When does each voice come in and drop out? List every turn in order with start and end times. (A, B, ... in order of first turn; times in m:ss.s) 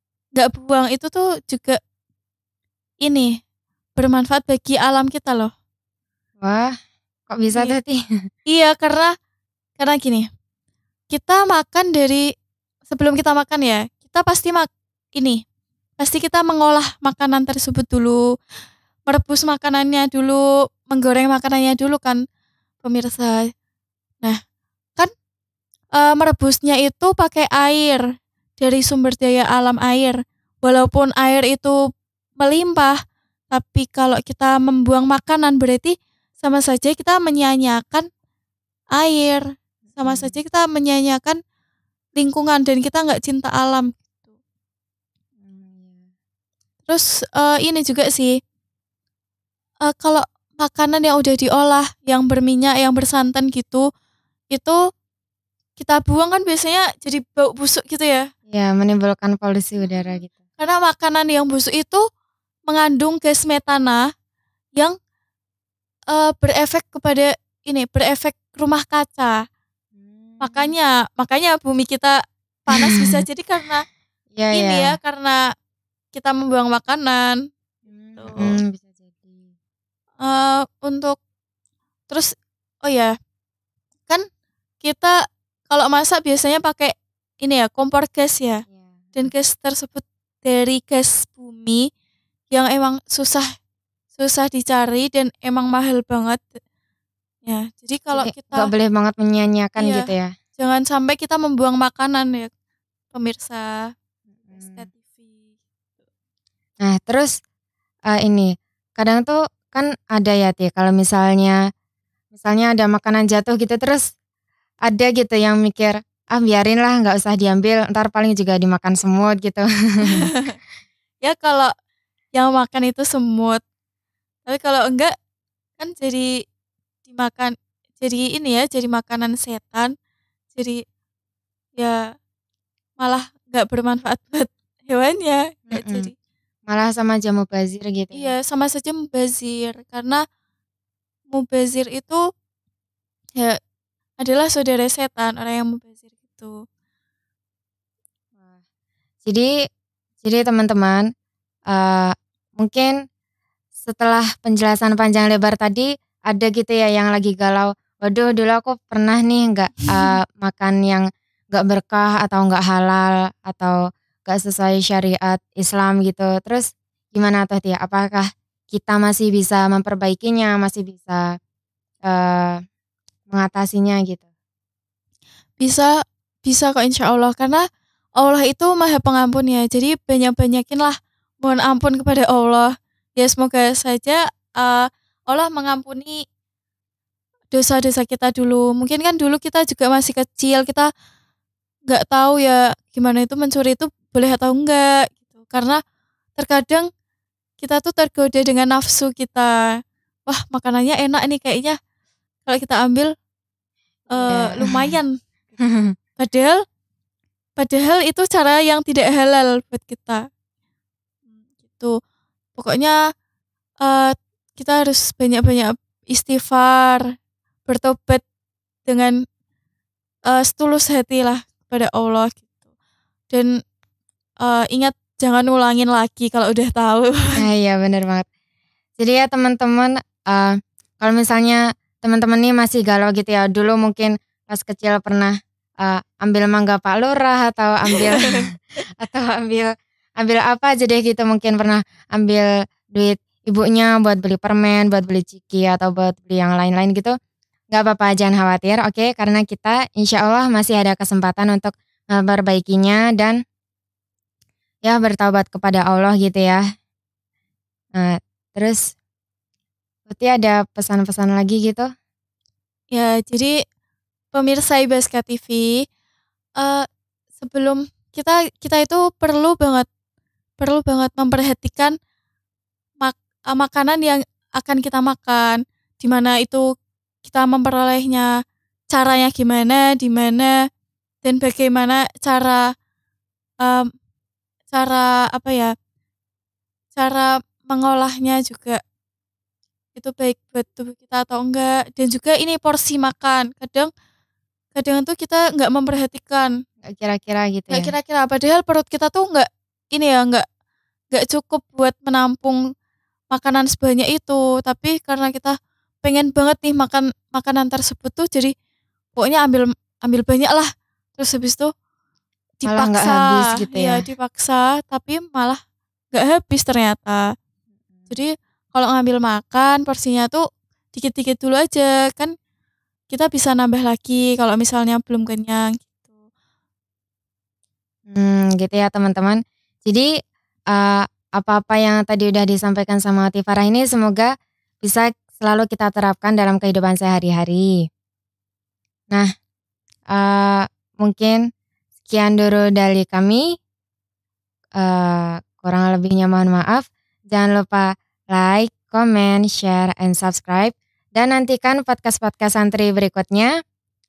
0:00.4-0:01.8 A
0:03.0-0:03.4 A
0:04.0-0:05.5 A
0:06.4-0:06.8 B
0:07.3-0:08.0 B
0:08.5-0:09.1 A
0:09.8-0:10.3 A
0:11.1-0:12.2 A
0:12.9-0:15.4 A
0:16.0-0:18.2 A
0:19.1-0:22.2 A
0:22.8-0:23.4 A
0:26.0-0:28.0 A
0:28.6-0:31.8 A
0:32.4-0:33.0 A
0:33.5-0:38.1 A
0:39.0-0:39.4 A
0:40.0-0:41.4 A
0:40.0-0:40.4 B
0:42.2-0:44.0 A
0:45.4-0:46.0 B
0:46.9-0:48.4 A
0:49.9-0:53.9 A
0:55.8-0:58.3 A
0:58.5-1:00.4 B
0:59.9-1:02.0 A
1:02.7-1:04.0 A
1:06.1-1:09.3 A
1:10.0-1:10.7 B
1:10.4-1:13.8 A
1:12.8-1:13.2 B
1:14.3-1:15.0 B
1:14.5-1:15.4 A
1:16.1-1:17.4 A
1:17.9-1:19.5 B
1:18.2-1:18.6 A
1:20.2-1:21.2 A
1:22.8-1:23.1 A
1:24.8-1:25.1 A
1:25.7-1:28.6 A
1:28.7-1:29.3 B
1:29.2-1:31.9 A
1:32.5-1:33.5 A
1:34.2-1:36.5 A
1:37.4-1:38.7 A
1:38.1-1:40.3 B
1:39.8-1:40.1 A
1:40.6-1:42.5 A
1:43.1-1:43.7 A
1:44.4-1:44.8 B
1:44.5-1:45.3 A
1:46.8-1:47.4 B
1:48.1-1:51.6 B
1:52.3-1:54.1 B
1:54.8-2:00.3 B
2:00.1-2:00.6 A
2:01.2-2:01.7 A
2:02.4-2:03.6 A
2:04.5-2:05.1 A
2:05.8-2:06.3 A
2:07.1-2:09.9 A
2:10.6-2:10.8 A
2:13.0-2:16.1 A
2:15.7-2:16.1 B
2:16.7-2:18.3 B
2:18.1-2:20.2 A
2:21.3-2:22.2 A
2:24.2-2:26.6 A
2:30.2-2:31.1 B
2:31.7-2:33.0 B
2:33.8-2:51.4 B
2:52.1-2:52.6 B
2:53.3-2:54.3 B
2:55.6-2:55.9 A
2:56.4-2:57.6 A
2:58.2-3:06.2 A
3:07.5-3:10.9 A
3:11.9-3:15.8 A
3:16.4-3:16.9 A
3:17.6-3:19.5 A
3:20.3-3:21.8 A
3:22.5-3:23.1 A
3:24.1-3:25.1 A
3:24.1-3:25.0 B
3:25.6-3:25.9 B
3:26.2-3:26.6 A
3:27.6-3:30.2 A
3:32.6-3:33.0 A
3:33.8-3:37.0 A
3:37.7-3:38.2 A
3:38.9-3:39.1 A
3:40.3-3:42.4 A
3:44.4-3:47.3 A
3:47.4-3:48.3 B
3:49.0-4:07.1 B
3:57.9-3:58.5 A
4:07.7-4:13.4 B
4:14.8-4:16.6 B
4:18.0-4:19.0 B
4:20.1-4:21.9 B
4:22.9-4:23.5 A
4:24.3-4:25.8 A
4:26.6-4:26.9 A
4:27.4-4:29.9 A
4:30.6-4:32.0 A
4:33.0-4:36.6 A
4:37.2-4:38.3 A
4:38.9-4:40.5 A
4:41.2-4:42.6 A
4:43.6-4:43.9 A
4:44.7-4:45.7 A
4:47.0-4:48.8 A
4:50.0-4:53.9 A
4:54.8-4:56.5 A
4:56.8-4:57.9 B
4:57.7-5:00.4 A
5:01.1-5:02.6 A
5:03.3-5:08.5 A
5:09.2-5:11.7 A
5:12.6-5:15.6 A
5:12.7-5:14.0 B
5:16.1-5:17.2 A
5:18.1-5:22.3 A
5:23.1-5:25.9 A
5:28.1-5:30.1 B
5:30.7-5:34.3 B
5:34.8-5:37.9 B
5:40.1-5:41.4 B
5:42.1-5:43.6 B
5:44.8-5:53.5 B